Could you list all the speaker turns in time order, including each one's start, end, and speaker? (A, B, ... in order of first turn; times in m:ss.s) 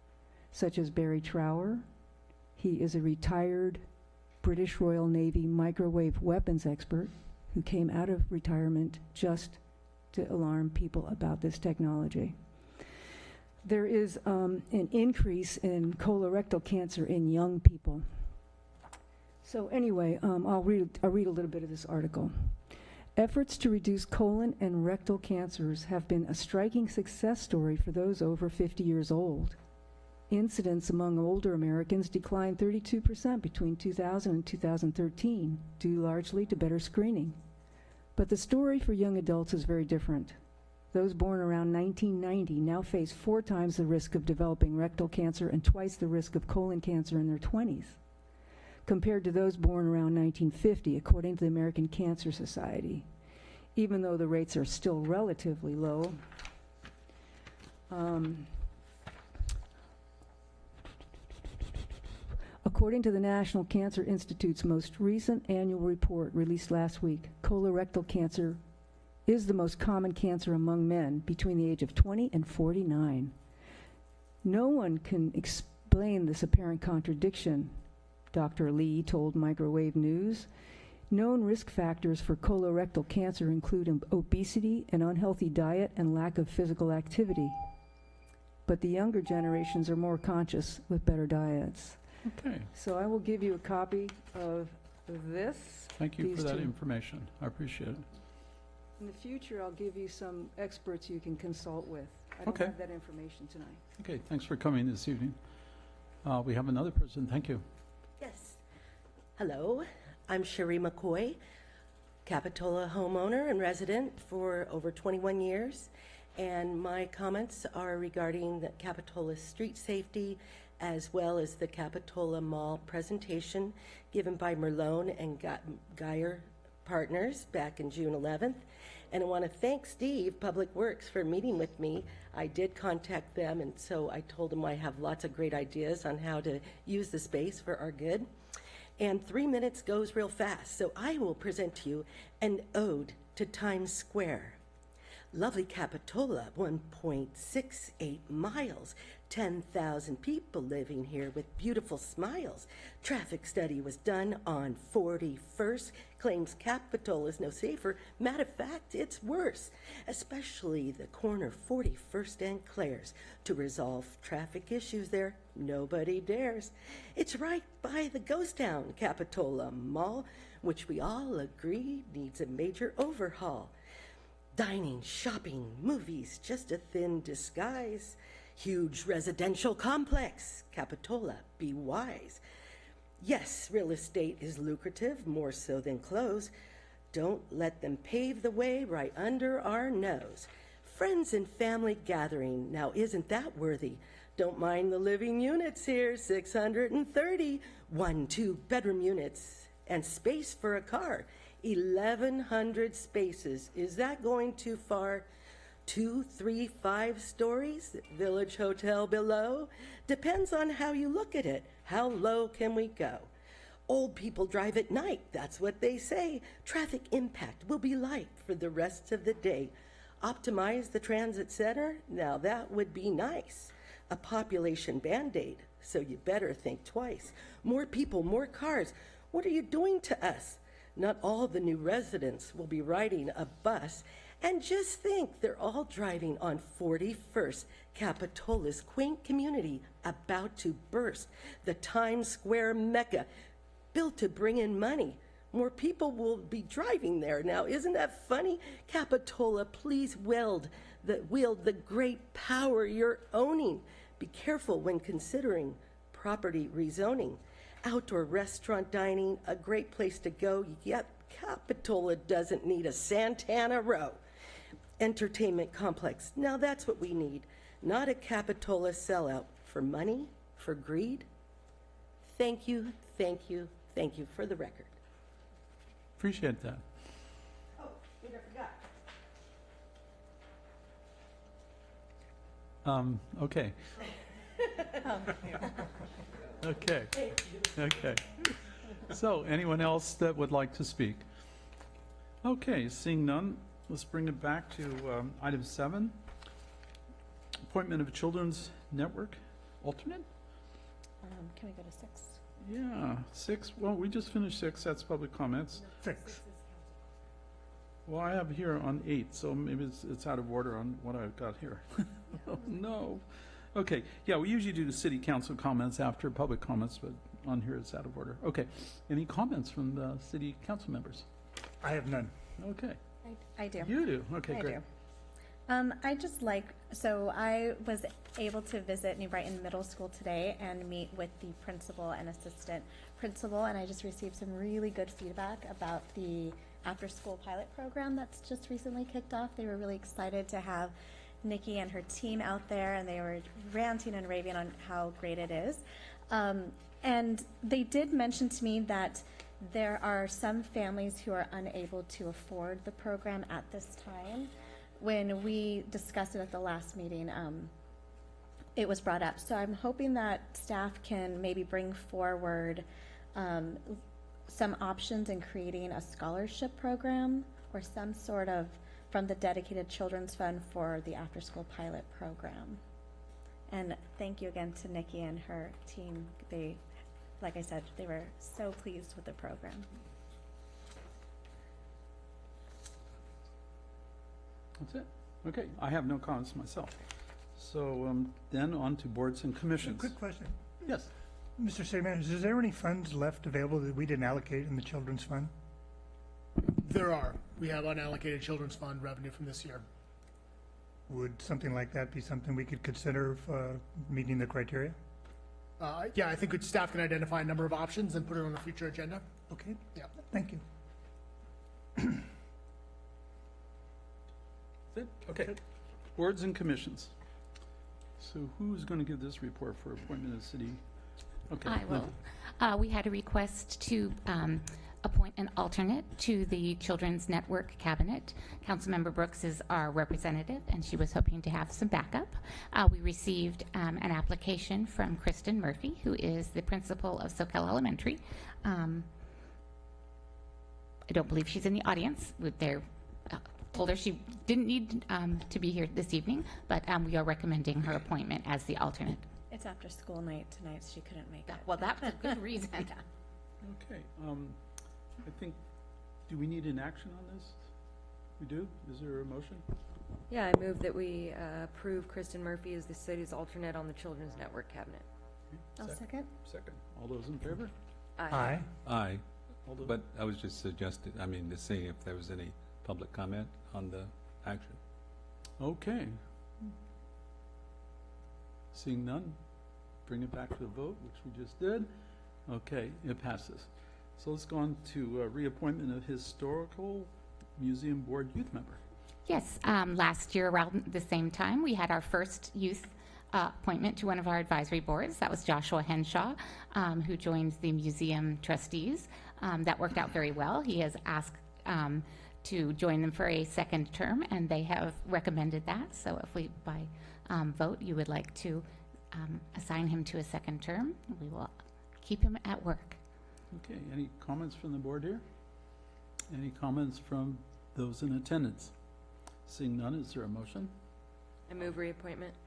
0:00.5-0:01.9 A
0:02.6-0:03.9 A
0:04.4-0:09.6 A
0:10.1-0:12.4 A
0:13.6-0:18.3 A
0:19.4-0:29.6 A
0:30.3-0:37.4 A
0:38.2-0:40.4 A
0:40.9-0:48.0 A
0:48.9-0:53.1 A
0:53.8-0:56.2 A
0:57.9-0:58.6 A
1:02.6-1:08.6 A
1:09.2-1:13.4 A
1:14.4-1:20.5 A
1:21.1-1:27.7 A
1:28.7-1:32.2 A
1:32.2-1:32.7 B
1:32.7-1:36.7 A
1:36.0-1:38.0 B
1:39.0-1:43.8 A
1:42.4-1:42.8 B
1:44.0-1:45.4 B
1:46.2-1:47.6 B
1:48.2-1:48.6 C
1:49.4-1:51.4 C
1:52.2-2:18.3 C
2:19.0-2:24.6 C
2:25.3-2:53.7 C
2:54.6-3:02.4 C
3:03.2-3:06.5 C
3:07.1-3:25.3 C
3:25.9-3:33.3 C
3:33.9-4:03.3 C
4:03.9-4:24.2 C
4:25.0-4:31.3 C
4:32.2-4:34.9 C
4:36.2-4:36.8 B
4:38.2-4:38.6 C
4:42.8-4:43.9 B
4:46.6-4:47.2 B
4:47.7-4:51.3 B
4:52.4-4:56.2 B
4:57.6-5:00.3 B
5:01.2-5:02.4 D
5:02.6-5:05.9 B
5:06.0-5:06.4 E
5:08.1-5:21.3 B
5:21.8-5:22.3 E
5:22.6-5:23.0 B
5:23.2-5:24.8 D
5:23.8-5:24.8 B
5:25.7-5:57.7 D
5:58.8-6:12.8 D
6:13.7-6:16.8 D
6:17.4-6:19.9 D
6:24.8-6:27.0 B
6:27.6-6:30.1 B
6:29.8-6:30.6 E
6:30.8-6:31.1 B
6:31.6-6:35.5 E
6:36.7-6:39.8 F
6:41.1-6:45.0 E
6:45.8-6:50.1 F
6:49.5-6:50.6 E
6:52.0-6:52.3 E
6:54.9-6:55.6 B
6:56.1-6:57.1 B
6:58.2-7:00.8 B
7:01.5-7:02.1 B
7:01.6-7:19.1 G
7:21.1-7:29.3 G
7:29.5-7:33.0 D
7:31.5-7:33.0 G
7:33.6-7:34.6 B
7:35.2-7:35.6 B
7:36.3-7:37.6 B
7:38.4-7:39.6 B
7:40.3-7:45.0 H
7:45.5-7:47.7 B
7:45.8-7:46.3 D
7:48.2-7:48.6 H
7:48.3-7:48.7 E
7:48.8-7:49.2 I
7:49.7-7:49.9 B
7:49.8-7:54.8 I
7:55.6-7:56.2 B
7:58.7-7:59.4 B
8:00.0-8:01.9 B
8:02.5-8:08.8 B
8:09.3-8:33.0 G
8:33.5-8:35.2 B
8:36.3-8:38.7 B
8:39.5-8:40.8 B
8:41.5-8:42.4 H